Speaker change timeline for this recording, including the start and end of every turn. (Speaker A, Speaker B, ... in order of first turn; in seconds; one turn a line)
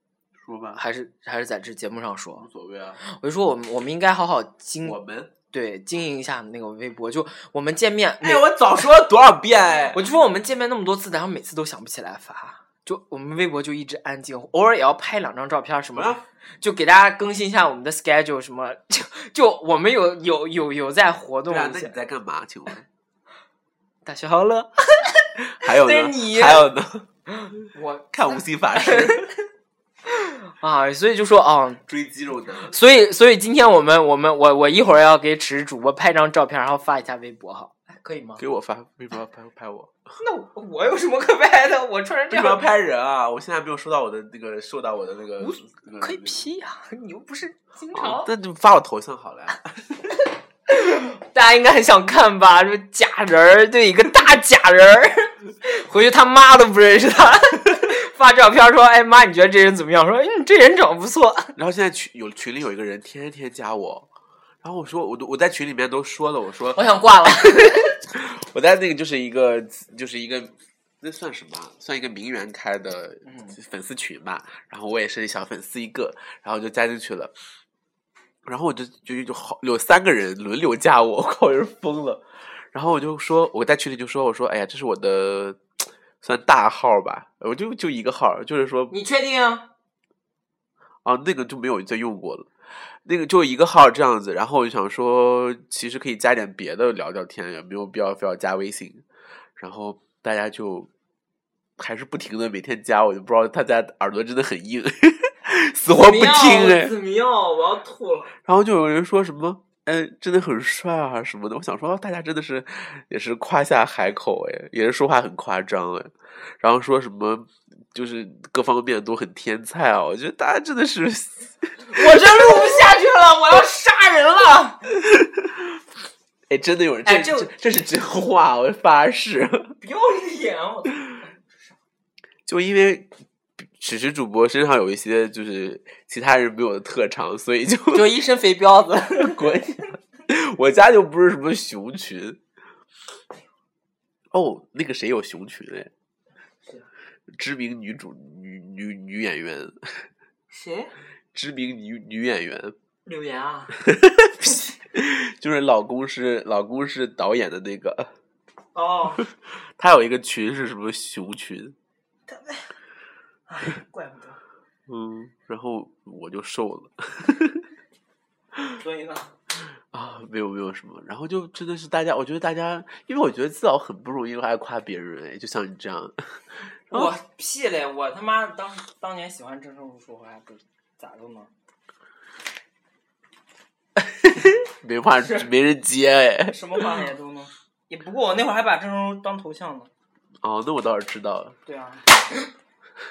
Speaker A: 0.4-0.8
Speaker B: 0.8-2.5
Speaker A: 2.4-3.0
Speaker B: 3.0-5.0
Speaker A: 4.8-5.3
Speaker B: 5.5-8.5
Speaker A: 8.2-10.0
Speaker B: 9.9-22.0
Speaker A: 15.9-16.2
Speaker A: 21.5-22.9
Speaker B: 24.0-26.7
Speaker A: 25.5-27.1
Speaker B: 27.3-29.3
Speaker A: 28.1-29.3
Speaker B: 30.1-31.8
Speaker A: 31.9-32.7
Speaker B: 32.7-38.4
Speaker A: 38.4-39.9
Speaker B: 40.2-42.6
Speaker A: 42.3-46.4
Speaker B: 45.4-48.3
Speaker A: 47.9-49.9
Speaker B: 50.7-61.5
Speaker A: 61.6-64.1
Speaker A: 64.6-66.8
Speaker B: 66.7-67.9
Speaker A: 67.5-77.3
Speaker B: 73.2-73.5
Speaker A: 78.4-85.6
Speaker A: 86.2-88.9
Speaker B: 88.9-89.7
Speaker A: 91.0-92.5
Speaker A: 93.0-99.0
Speaker A: 99.6-100.9
Speaker A: 101.8-106.9
Speaker B: 105.9-108.3
Speaker A: 108.4-122.7
Speaker B: 121.9-124.8
Speaker A: 125.0-125.8
Speaker A: 126.5-129.8
Speaker B: 127.0-127.5
Speaker B: 129.8-131.2
Speaker A: 132.4-133.1
Speaker A: 133.6-138.1
Speaker B: 137.9-139.5
Speaker A: 139.1-142.4
Speaker A: 144.3-145.9
Speaker A: 147.3-150.1
Speaker B: 150.5-150.9
Speaker A: 151.3-152.7
Speaker B: 153.1-153.8
Speaker A: 153.8-158.1
Speaker B: 158.7-159.2
Speaker A: 159.2-161.8
Speaker B: 162.3-162.7
Speaker B: 163.5-164.4
Speaker A: 164.9-167.6
Speaker B: 168.8-169.3
Speaker A: 169.9-176.2
Speaker B: 176.9-181.5
Speaker A: 183.9-187.0
Speaker B: 186.5-189.9
Speaker A: 190.4-191.5
Speaker B: 191.7-192.5